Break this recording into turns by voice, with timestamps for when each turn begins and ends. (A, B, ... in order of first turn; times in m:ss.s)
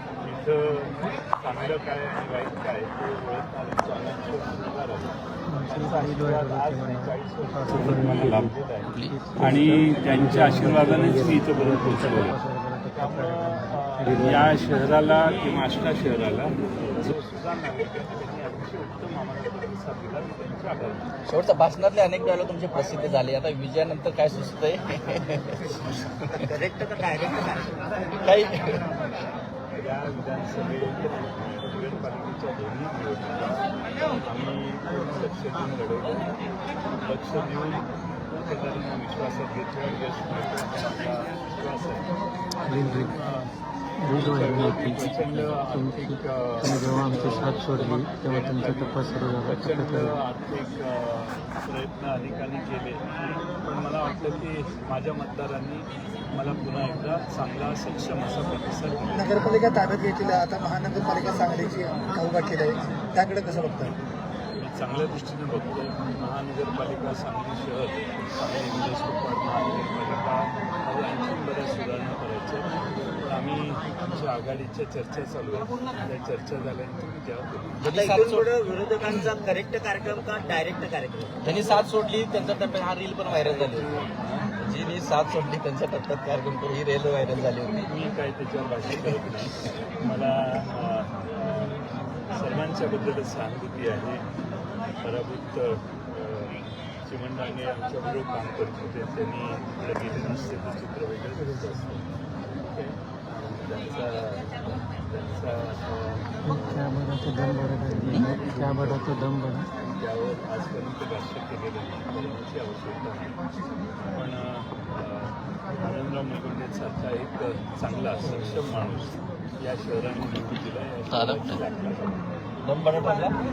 0:00.2-0:12.4 A
0:05.5-0:07.1 B
0:07.6-0:08.2 B
0:09.0-0:14.3 B
0:12.9-0:21.1 A
0:21.3-0:26.4 C
0:26.2-0:27.9 D
0:28.2-0:28.9 C
0:29.7-0:33.6 A
0:34.2-0:36.3 A
0:37.0-0:42.1 A
0:42.7-0:43.1 B
0:42.7-0:43.5 A
0:44.0-0:50.1 B
0:44.0-0:59.4 A
0:59.1-1:03.9 E
1:04.6-1:12.7 A
1:13.2-1:17.8 A
1:17.8-1:18.5 C
1:17.8-1:21.8 D
1:21.4-1:24.0 C
1:23.2-1:24.5 A
1:24.6-1:27.9 C
1:27.9-1:34.2 A
1:35.0-1:42.1 A
1:42.6-1:46.9 A
1:46.5-1:49.7 B
1:47.9-1:53.4 A
1:54.1-2:02.2 A
2:01.1-2:01.6 C
2:02.6-2:03.4 C